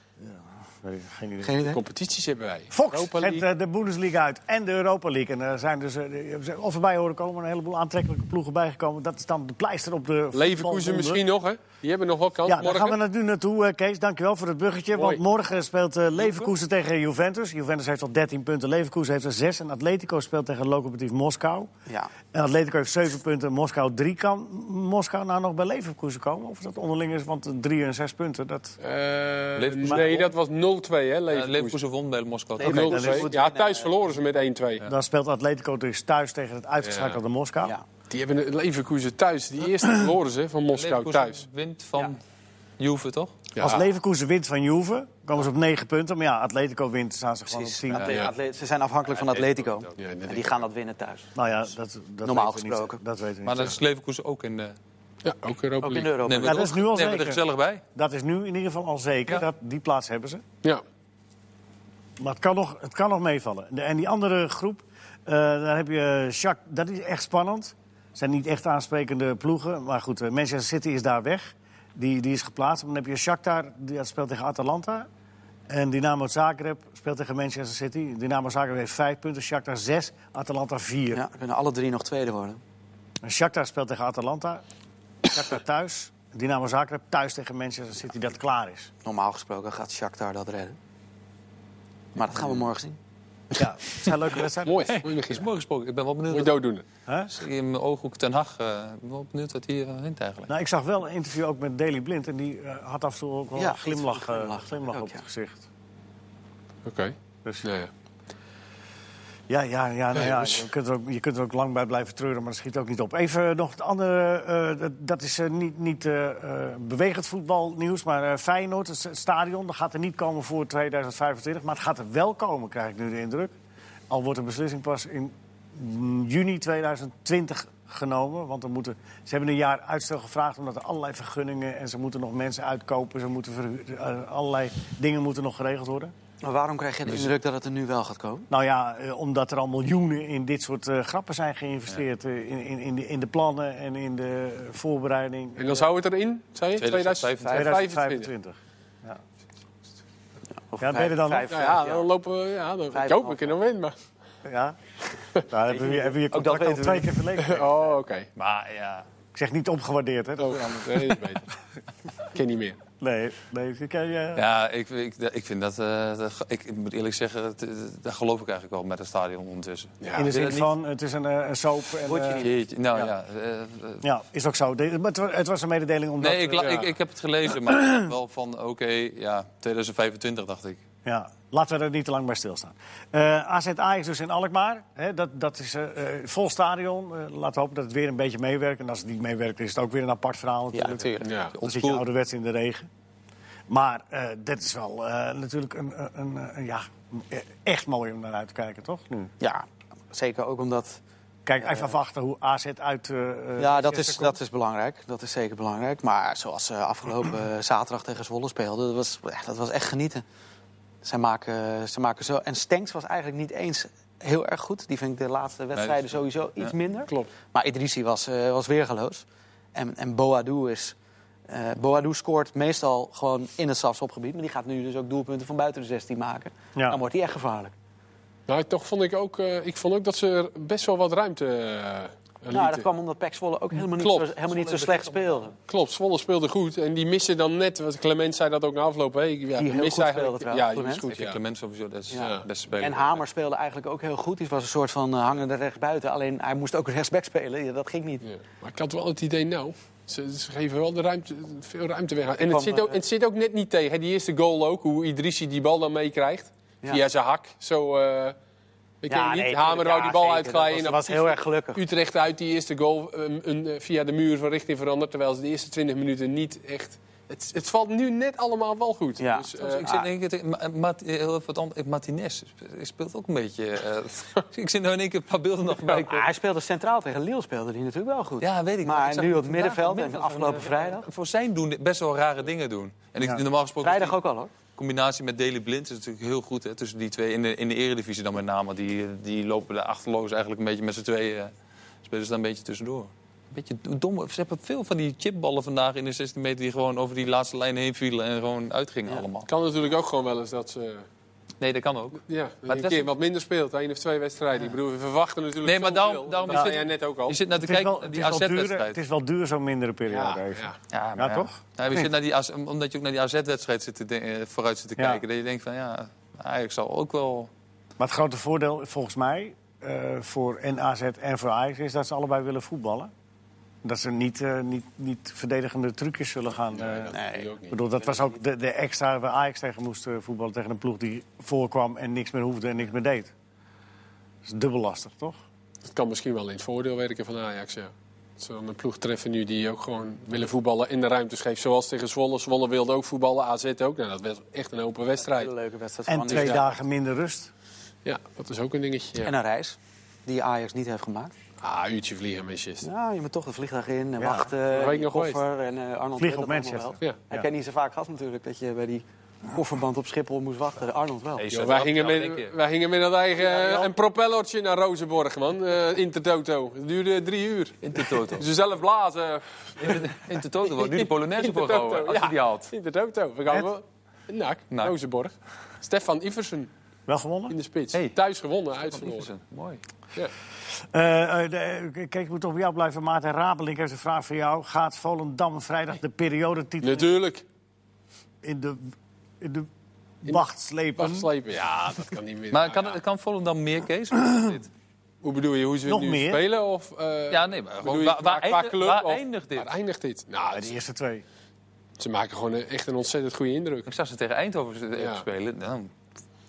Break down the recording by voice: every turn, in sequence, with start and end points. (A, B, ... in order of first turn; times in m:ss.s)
0:00.2-0:01.6 A
0:01.4-0:01.8 B
0:01.7-0:03.4 C
0:02.7-0:11.2 A
0:10.3-0:13.0 C
0:12.4-0:21.7 A
0:14.9-0:15.2 C
0:22.3-0:28.7 A
0:28.8-0:31.8 C
0:29.6-0:30.3 D
0:31.3-0:33.1 D
0:32.6-0:34.0 B
0:32.6-0:34.8 C
0:32.7-0:33.3 A
0:34.8-0:37.7 A
0:36.8-0:37.2 C
0:38.1-0:41.4 C
0:40.7-0:42.2 D
0:42.8-0:43.4 D
0:43.5-0:43.8 C
0:43.6-0:48.2 A
0:47.5-0:51.3 B
0:49.1-0:49.9 D
0:50.0-0:50.6 C
0:51.3-0:53.7 A
0:52.2-0:53.0 B
0:53.4-0:54.8 D
0:55.2-0:56.1 C
0:55.8-0:56.7 B
0:56.2-0:57.8 D
0:56.4-1:00.4 A
1:02.2-1:15.1 A
1:15.7-1:21.2 A
1:21.1-1:22.6 B
1:23.2-1:24.6 A
1:25.2-1:28.9 A
1:29.0-1:30.8 B
1:32.1-1:33.0 B
1:33.6-1:35.0 A
1:33.6-1:35.5 C
1:34.8-1:36.6 D
1:36.3-1:36.8 C
1:37.1-1:37.3 A
1:37.3-1:40.5 D
1:40.5-1:45.6 A
1:43.6-1:45.2 B
1:46.8-1:47.9 C
1:49.5-2:03.5 A
1:50.1-1:50.7 C
2:04.1-2:16.1 A
2:16.4-2:18.5 B
2:17.1-2:17.3 D
2:18.5-2:25.9 A
2:25.6-2:28.3 C
2:26.8-2:27.8 D
2:27.5-2:29.2 A
2:30.7-2:32.1 B
2:30.8-2:31.5 A
2:31.5-2:33.9 C
2:32.9-2:33.6 B
2:34.4-2:34.8 A
2:35.4-2:37.9 A
2:35.7-2:37.2 B
2:37.4-2:38.3 C
2:38.3-2:39.1 D
2:39.3-2:41.2 A
2:40.4-2:41.4 C
2:42.3-2:42.8 C
2:43.0-2:44.4 A
2:44.3-2:50.7 D
2:50.0-2:50.3 C
2:50.1-2:53.1 A
2:52.0-2:52.6 B
2:52.4-2:54.0 D
2:54.0-2:56.9 A
2:56.2-3:00.8 D
2:56.6-2:56.9 C
2:57.7-2:58.0 A
3:01.0-3:12.9 A
3:10.7-3:11.2 B
3:11.2-3:12.0 D
3:11.2-3:11.5 C
3:13.7-3:19.3 A
3:19.4-3:21.0 B
3:21.4-3:24.4 A
3:21.6-3:21.9 B
3:23.6-3:30.2 B
3:31.0-3:40.9 B
3:35.7-3:36.7 D
3:41.5-3:47.7 B
3:48.5-3:52.8 C
3:52.5-3:55.5 B
3:53.9-3:54.3 C
3:54.4-3:55.5 D
3:55.7-4:01.4 C
3:59.6-4:01.1 B
4:01.1-4:03.2 D
4:02.1-4:08.2 B
4:02.1-4:02.4 C
4:08.2-4:18.4 C
4:12.4-4:13.0 B
4:19.0-4:29.9 C
4:19.1-4:21.8 B
4:29.2-4:30.0 B
4:29.6-4:36.3 D
4:35.8-4:41.1 B
4:38.4-4:44.2 D
4:43.8-4:44.5 B
4:44.7-4:51.5 D
4:52.0-4:59.5 D
4:59.4-5:01.0 C
5:01.6-5:03.1 D
5:02.3-5:07.4 C
5:05.6-5:09.0 D
5:06.5-5:06.8 A
5:07.5-5:12.1 A
5:10.1-5:10.8 C
5:10.9-5:17.5 D
5:15.0-5:15.2 A
5:18.0-5:23.1 A
5:23.8-5:33.3 A
5:26.7-5:27.8 C
5:27.1-5:27.5 B
5:34.4-5:35.4 A
5:35.8-5:45.5 C
5:45.2-5:46.8 B
5:46.1-5:47.5 A
5:46.3-5:46.6 C
5:48.0-5:49.3 C
5:49.2-5:51.3 B
5:51.6-5:52.9 C
5:52.8-6:01.4 B
5:54.2-5:54.5 A
5:54.7-5:55.4 C
5:56.2-5:57.4 A
6:01.4-6:02.5 D
6:01.5-6:16.7 C
6:03.6-6:03.9 B
6:07.8-6:08.5 D
6:09.8-6:12.7 D
6:17.1-6:17.6 A
6:17.5-6:19.3 C
6:18.8-6:19.8 D
6:20.7-6:27.1 A
6:26.8-6:27.4 C
6:28.4-6:29.7 A
6:30.2-6:31.3 A
6:31.0-6:33.0 C
6:32.5-6:34.7 D
6:34.2-6:34.5 A
6:35.2-6:40.7 C
6:35.8-6:36.4 A
6:37.3-6:39.7 D
6:40.5-6:41.2 A
6:42.0-6:43.9 C
6:43.8-6:45.9 D
6:45.0-6:45.2 C